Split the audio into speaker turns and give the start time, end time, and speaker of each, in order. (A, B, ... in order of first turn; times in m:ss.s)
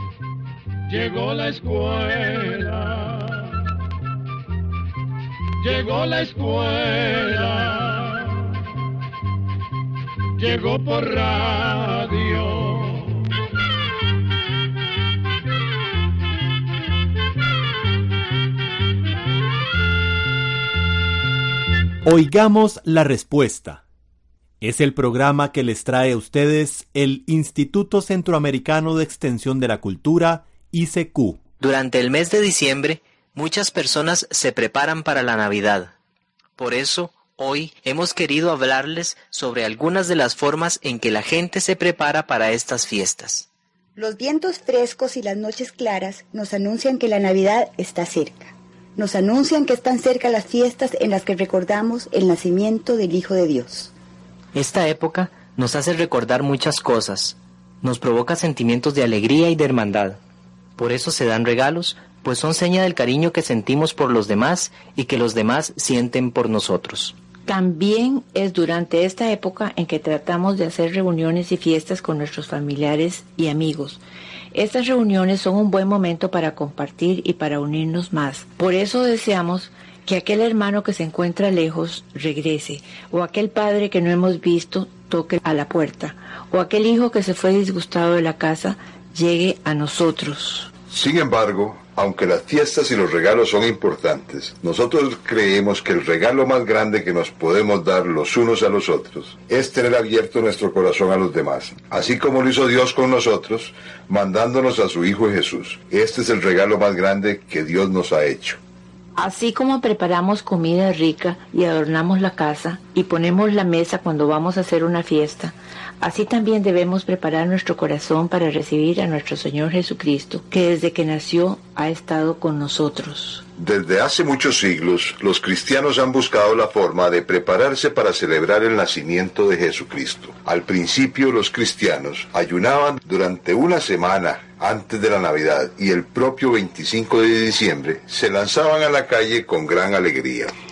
0:00.9-0:03.4 A
0:05.6-0:08.2 A
0:10.4-0:13.0 A
0:22.0-0:23.8 B
0:24.6-0:31.4 B
0:31.6-0:35.9 C
0:36.6-0:43.4 C
0:44.0-0:53.9 D
0:54.5-1:00.2 C
1:00.8-1:07.1 C
1:07.5-1:14.0 E
1:14.5-1:30.7 E
1:30.9-1:48.6 F
1:49.2-2:03.4 E
2:03.6-2:20.5 F